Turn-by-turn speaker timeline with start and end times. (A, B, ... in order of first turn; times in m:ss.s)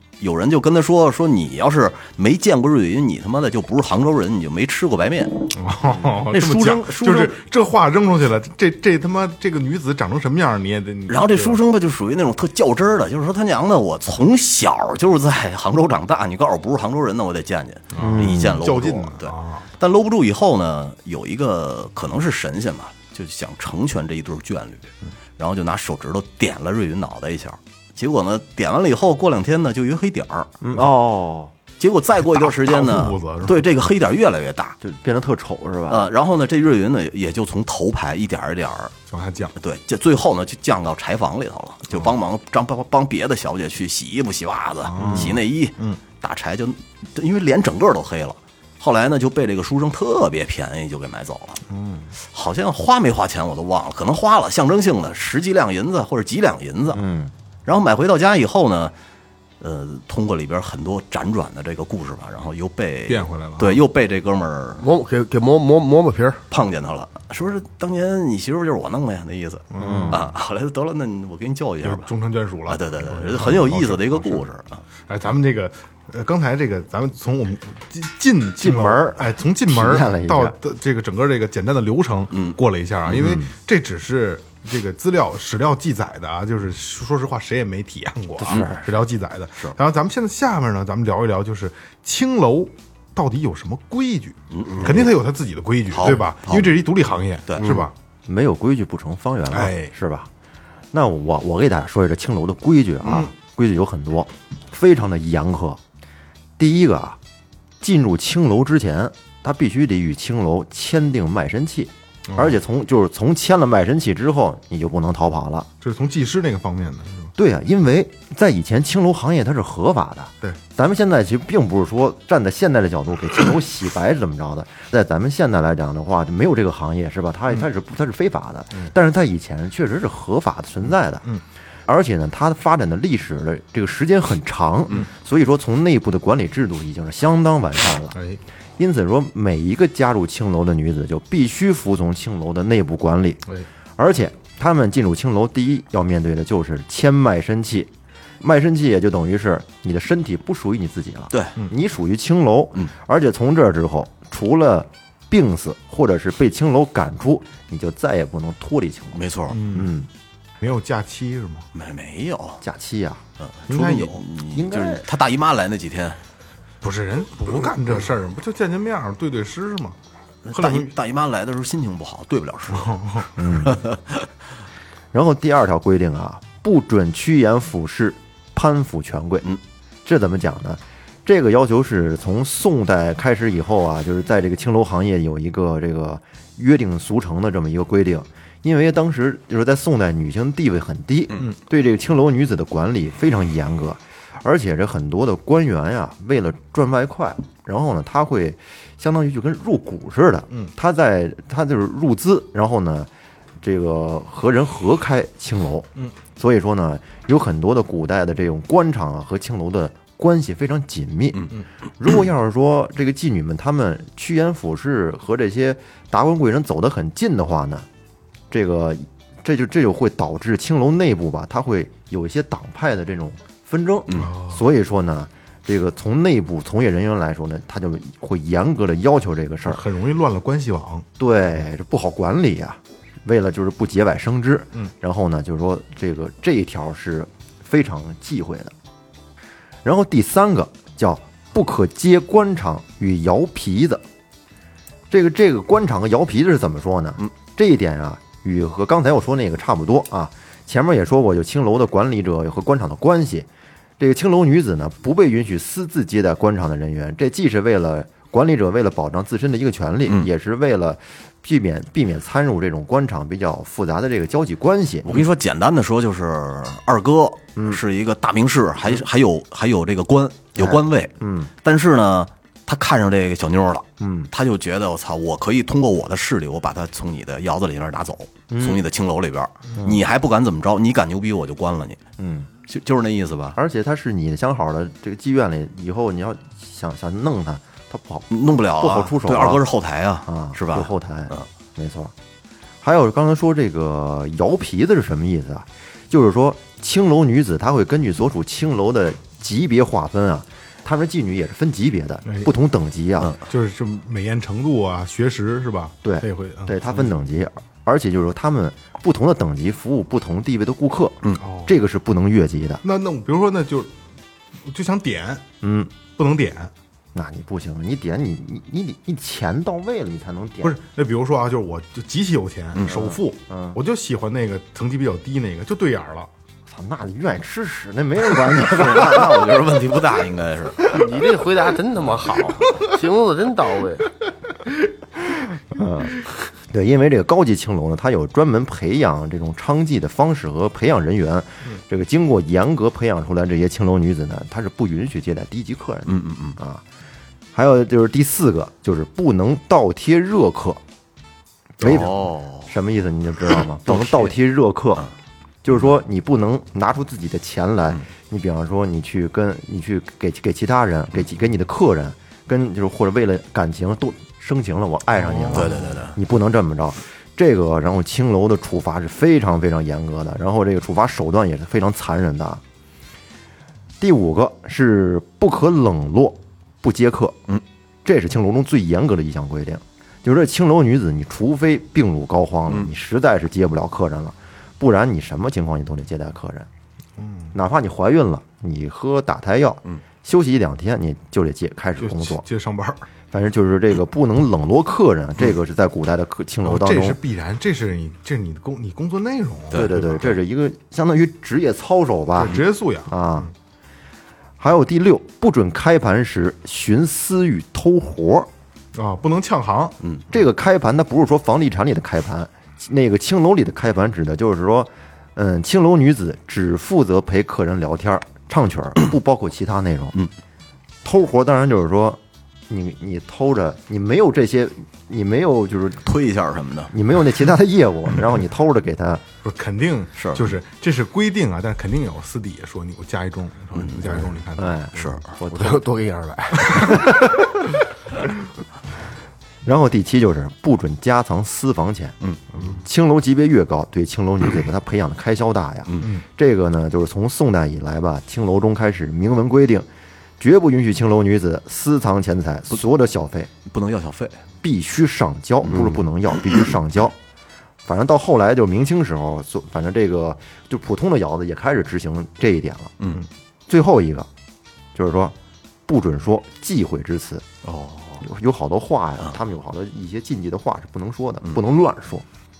0:00.2-0:05.5 A
0:05.5-0:11.6 B
0:06.3-0:07.4 A
0:11.1-0:30.5 A
0:17.9-0:19.7 B
0:18.0-0:18.6 C
0:30.6-0:31.5 C
0:31.8-0:34.8 A
0:32.2-0:33.7 B
0:34.8-0:36.1 C
0:35.9-0:38.9 A
0:39.1-0:39.5 B
0:39.6-0:51.6 A
0:44.8-0:46.0 B
0:45.0-0:45.3 C
0:51.7-0:52.1 B
0:52.3-0:57.0 A
0:56.9-0:57.3 C
0:57.6-0:58.9 A
0:59.6-1:04.8 A
1:03.1-1:03.8 B
1:04.8-1:06.4 D
1:06.5-1:12.1 A
1:09.7-1:10.2 B
1:09.8-1:10.2 C
1:11.8-1:14.4 B
1:12.7-1:14.8 A
1:15.1-1:37.9 B
1:18.6-1:20.6 C
1:23.1-1:23.5 C
1:28.4-1:28.9 C
1:34.5-1:35.1 A
1:35.9-1:36.7 A
1:37.5-1:37.8 A
1:38.3-1:40.3 C
1:39.5-1:39.9 B
1:40.9-1:45.8 C
1:46.6-1:47.2 C
1:47.8-1:55.7 C
1:52.3-1:52.6 B
1:55.8-1:57.3 B
1:57.4-2:11.3 C
2:11.9-2:18.2 C
2:18.1-2:18.4 B
2:18.8-2:23.4 C
2:24.0-2:40.1 C
2:39.1-2:39.6 A
2:39.5-2:39.9 B
2:40.6-2:41.7 B
2:41.7-2:42.6 A
2:42.6-2:43.2 C
2:43.4-2:46.2 A
2:43.7-2:44.2 B
2:44.5-2:45.0 C
2:46.8-2:50.0 B
2:50.4-2:54.3 A
2:50.5-2:50.9 B
2:52.7-2:53.4 B
2:53.4-2:53.8 C
2:55.1-2:59.4 C
3:00.0-3:23.1 C
3:23.6-3:37.9 C
3:38.5-3:49.8 C
3:44.1-3:44.6 B
3:49.7-3:51.0 B
3:51.2-3:58.7 C
3:59.8-4:04.0 C
4:05.1-4:13.5 C
4:14.0-4:25.2 C
4:25.0-4:42.0 A
4:27.6-4:27.8 C
4:30.5-4:31.5 C
4:34.0-4:34.3 C
4:38.5-4:38.8 C
4:39.7-4:40.0 C
4:42.2-4:42.5 C
4:42.6-4:43.6 A
4:43.6-4:48.3 C
4:48.3-4:51.4 A
4:48.8-4:49.6 C
4:50.3-4:52.1 C
4:52.8-5:03.3 C
5:02.2-5:02.5 B
5:03.4-5:07.1 B
5:06.0-5:12.8 C
5:11.4-5:11.7 B
5:12.8-5:13.9 B
5:14.6-5:15.4 B
5:15.6-5:15.9 C
5:16.1-5:16.7 B
5:17.1-5:20.8 C
5:20.6-5:26.3 B
5:22.8-5:23.8 C
5:26.7-5:29.4 C
5:28.5-5:30.8 A
5:30.8-5:34.1 D
5:35.7-5:46.8 C
5:46.1-5:46.6 A
5:47.5-5:50.8 C
5:51.8-5:55.1 C
5:51.8-5:52.7 A
5:53.9-5:54.3 A
5:55.6-6:12.6 C
6:05.2-6:06.0 B
6:05.5-6:06.2 A
6:14.0-6:17.4 C
6:18.0-6:26.7 C
6:27.2-6:27.5 B
6:27.5-6:32.4 C
6:32.0-6:33.1 B
6:33.3-6:37.2 C
6:36.6-6:40.4 B
6:39.7-6:43.5 C
6:42.3-6:43.5 B
6:44.6-6:48.5 C
6:48.9-6:50.0 B
6:50.3-7:00.2 C
7:01.0-7:06.0 C
7:06.0-7:06.9 A
7:06.9-7:09.2 C
7:09.4-7:14.8 B
7:10.2-7:10.4 A
7:13.8-7:14.0 A
7:14.6-7:15.8 C
7:14.9-7:15.3 A
7:15.5-7:17.1 D
7:16.8-7:17.4 C
7:19.6-7:29.9 C
7:30.4-7:33.5 C
7:33.6-7:34.4 A
7:34.6-7:37.2 C
7:35.7-7:36.0 D
7:37.8-7:42.9 C
7:43.0-7:43.2 A
7:43.7-7:44.3 C
7:44.9-7:45.3 C
7:45.8-7:47.4 C
7:47.6-7:48.2 A
7:48.2-7:52.2 C